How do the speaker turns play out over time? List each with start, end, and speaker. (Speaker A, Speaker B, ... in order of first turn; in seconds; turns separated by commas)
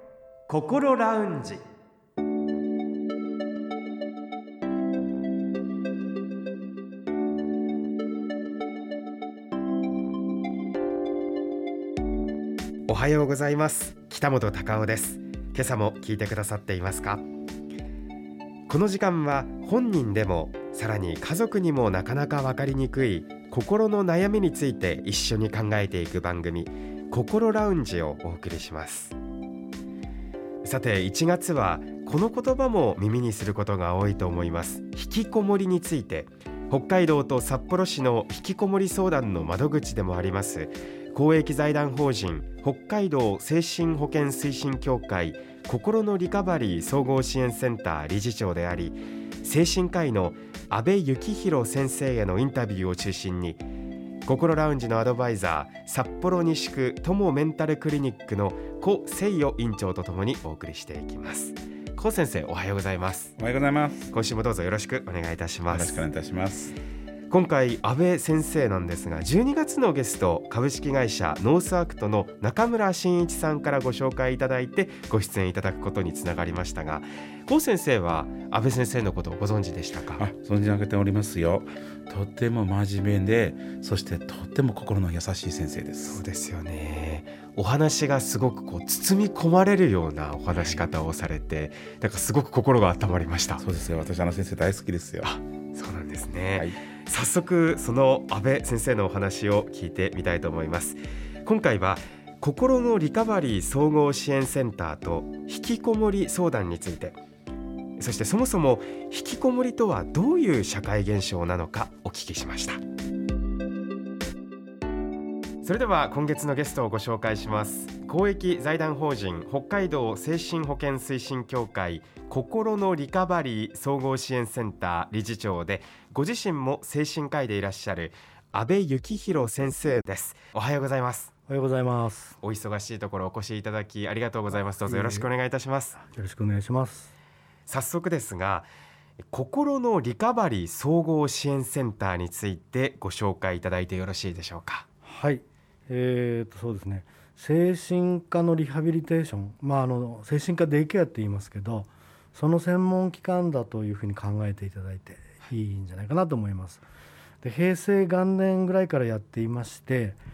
Speaker A: 0.5-1.6, Speaker A: 12.9-17.3, Speaker A: 18.7-29.1, Speaker A: 30.6-53.6, Speaker A: 54.3-63.4, Speaker B: 63.4-64.1, Speaker A: 64.1-66.0, Speaker B: 65.7-66.8, Speaker A: 67.3-80.2, Speaker B: 80.2-86.2, Speaker A: 86.0-93.6, Speaker B: 90.5-90.8, Speaker B: 93.6-95.4, Speaker A: 95.7-107.2, Speaker A: 108.0-112.8, Speaker A: 115.6-131.3, Speaker C: 131.5-132.4, Speaker A: 132.4-136.0, Speaker C: 134.9-135.3, Speaker C: 136.0-137.1, Speaker A: 137.7-138.7, Speaker A: 139.3-144.8, Speaker C: 145.1-156.8, Speaker C: 157.4-160.2